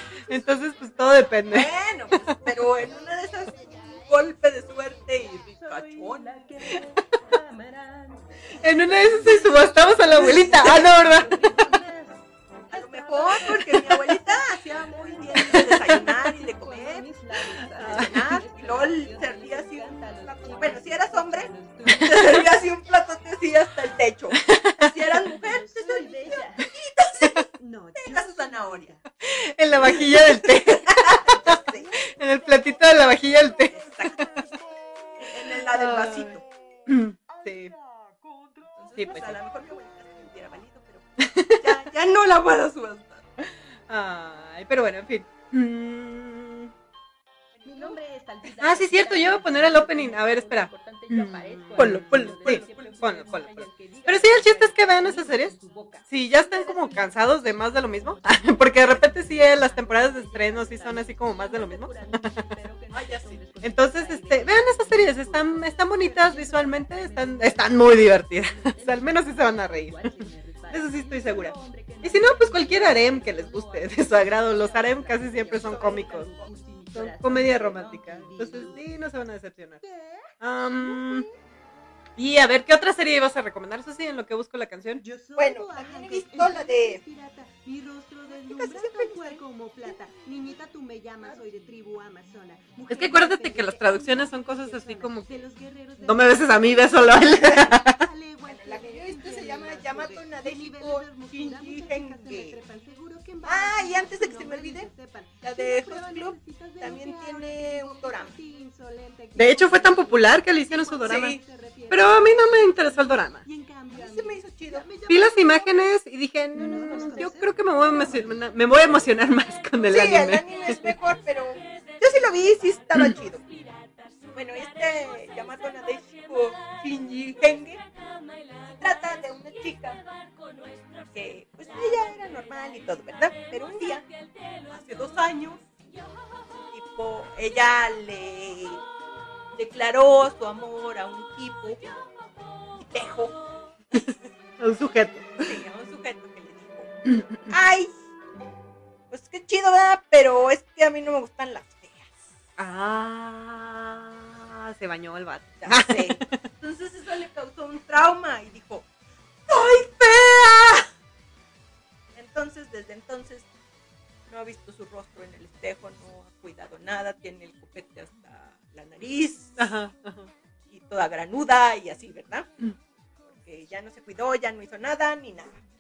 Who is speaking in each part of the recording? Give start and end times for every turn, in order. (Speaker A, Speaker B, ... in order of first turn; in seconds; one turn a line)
Speaker A: 0.3-1.7
Speaker B: 1.5-6.3
Speaker C: 3.5-4.0
Speaker C: 5.6-22.6
Speaker A: 8.6-11.4
Speaker B: 10.1-10.9
Speaker B: 12.7-17.1
Speaker B: 17.8-28.9
Speaker A: 24.5-24.9
Speaker C: 25.4-29.1
Speaker A: 29.2-31.6
Speaker B: 29.8-31.9
Speaker C: 31.5-32.6
Speaker A: 32.1-33.7
Speaker B: 33.7-34.3
Speaker B: 35.2-36.4
Speaker A: 35.8-36.4
Speaker A: 36.9-37.7
Speaker B: 38.8-43.3
Speaker A: 39.0-39.3
Speaker A: 43.9-46.7
Speaker B: 47.6-48.0
Speaker C: 47.6-78.8
Speaker A: 48.6-55.5
Speaker B: 51.7-53.0
Speaker A: 56.1-62.3
Speaker B: 62.9-63.4
Speaker A: 63.6-70.1
Speaker A: 70.7-76.3
Speaker B: 75.5-76.5
Speaker A: 77.0-79.8
Speaker A: 80.4-81.2
Speaker A: 82.2-85.0
Speaker C: 85.0-115.9
Speaker B: 85.4-87.0
Speaker B: 88.5-89.4
Speaker A: 92.9-95.4
Speaker A: 96.0-98.0
Speaker B: 98.5-102.6
Speaker B: 103.4-104.9
Speaker B: 105.4-108.3
Speaker A: 109.4-111.4
Speaker B: 111.0-111.4
Speaker A: 111.9-113.4
Speaker B: 113.9-114.9
Speaker A: 115.1-120.4
Speaker C: 116.5-119.1
Speaker B: 116.8-117.3
Speaker B: 119.8-123.4
Speaker C: 121.6-122.7
Speaker C: 123.4-124.4
Speaker B: 124.3-127.8
Speaker B: 128.7-130.0
Speaker C: 130.4-131.1
Speaker B: 131.1-134.1
Speaker B: 134.7-135.6
Speaker B: 136.7-138.8
Speaker B: 139.6-141.9
Speaker B: 142.8-143.4
Speaker A: 144.6-145.3
Speaker B: 145.4-146.9
Speaker B: 147.5-147.9
Speaker B: 149.1-152.0
Speaker A: 152.6-156.3
Speaker B: 155.6-158.9
Speaker B: 159.5-160.9
Speaker B: 162.2-163.5
Speaker B: 164.3-169.6
Speaker A: 169.6-170.3
Speaker B: 170.7-172.5
Speaker B: 173.3-175.6